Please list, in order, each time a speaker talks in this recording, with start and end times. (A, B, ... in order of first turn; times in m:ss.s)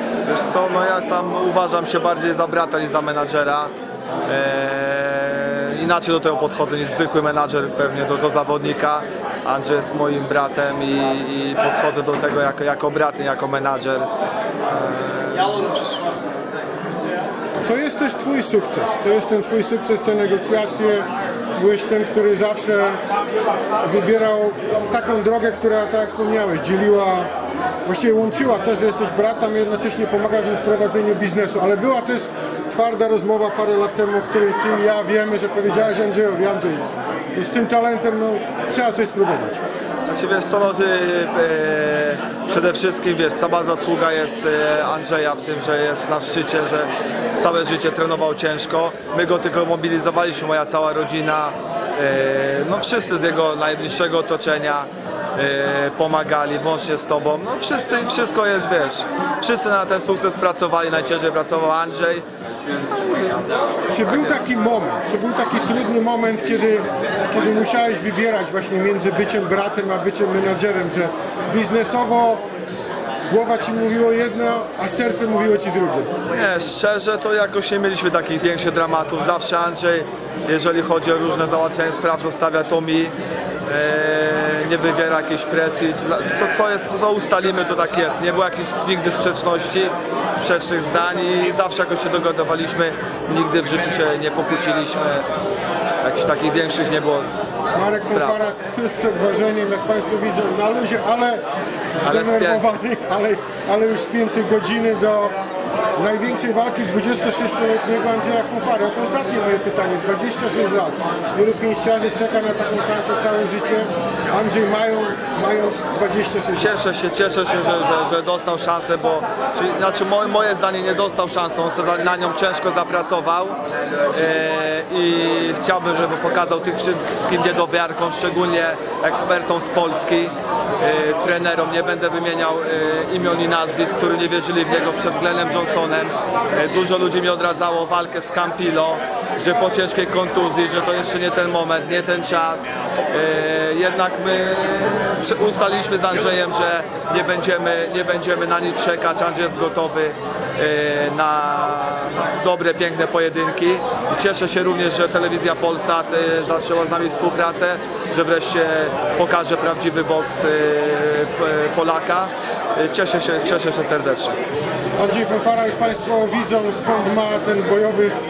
0:00.3-0:03.7 A
0:04.3-0:14.1 A
0:14.7-0:16.0 A
0:17.6-0:23.0 B
0:23.8-0:27.3 B
0:27.8-0:39.6 B
0:40.1-1:02.2 A
1:02.9-1:03.4 A
1:03.9-1:12.4 B
1:13.3-1:16.1 B
1:16.3-1:23.1 A
1:23.7-1:35.2 A
1:36.0-1:37.5 A
1:37.7-1:41.4 B
1:38.1-1:38.4 A
1:42.0-1:45.3 B
1:42.0-1:42.6 A
1:46.0-1:56.7 B
1:56.5-2:03.6 A
2:04.1-2:44.4 A
2:45.0-2:48.2 B